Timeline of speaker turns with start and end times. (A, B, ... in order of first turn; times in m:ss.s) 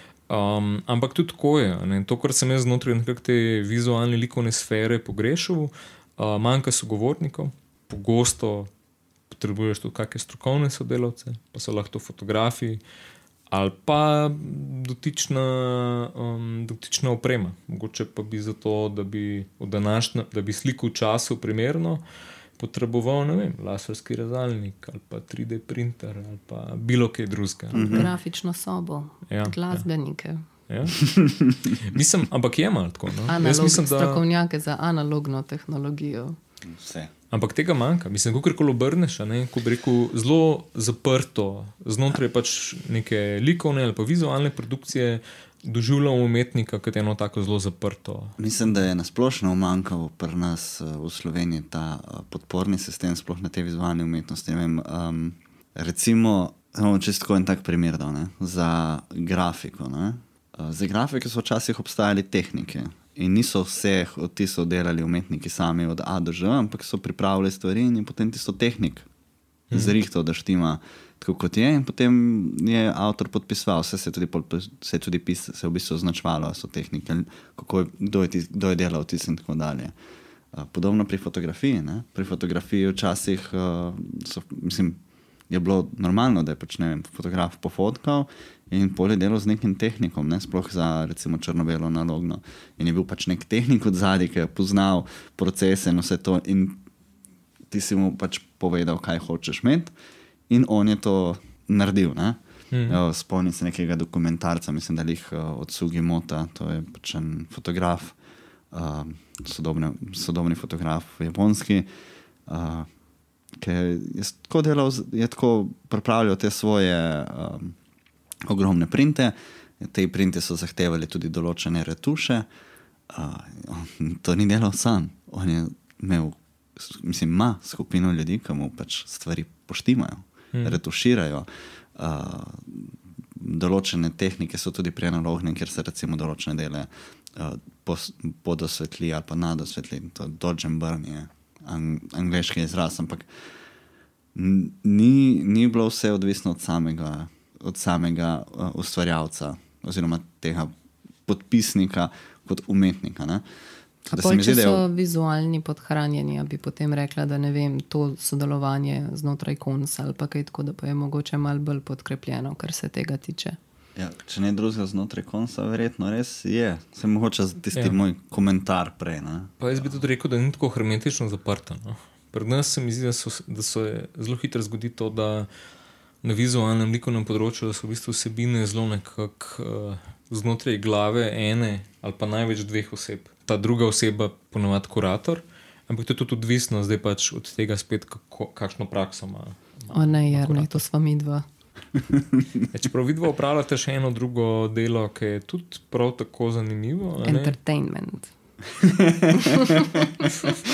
0:00.3-0:08.7 A
0:09.3-0:12.8 A
0:13.5-0:22.0 A
0:22.6-0:28.1 A
0:27.7-0:28.1 B
0:27.8-0:30.4 C
0:29.3-0:29.9 A
0:30.7-0:34.2 A
0:33.3-0:36.4 C
0:36.6-0:37.1 B
0:37.3-0:48.4 A
0:48.4-1:09.1 B
1:09.7-1:19.9 B
1:20.5-1:25.0 B
1:25.5-1:36.8 B
1:37.7-1:39.9 B
1:40.5-1:48.2 B
1:42.7-1:43.0 A
1:48.7-1:51.9 B
1:52.5-1:52.9 B
1:53.5-1:57.8 B
1:58.4-2:02.5 B
2:03.1-2:23.3 B
2:10.5-2:10.8 A
2:24.4-2:30.7 B
2:31.3-2:33.4 B
2:34.0-2:34.8 B
2:34.1-2:43.6 C
2:44.0-2:49.5 B
2:49.6-2:55.5 A
2:56.2-3:10.8 A
3:09.9-3:11.4 C
3:12.7-3:17.6 A
3:17.2-3:18.3 C
3:18.8-3:20.5 B
3:19.3-3:20.3 C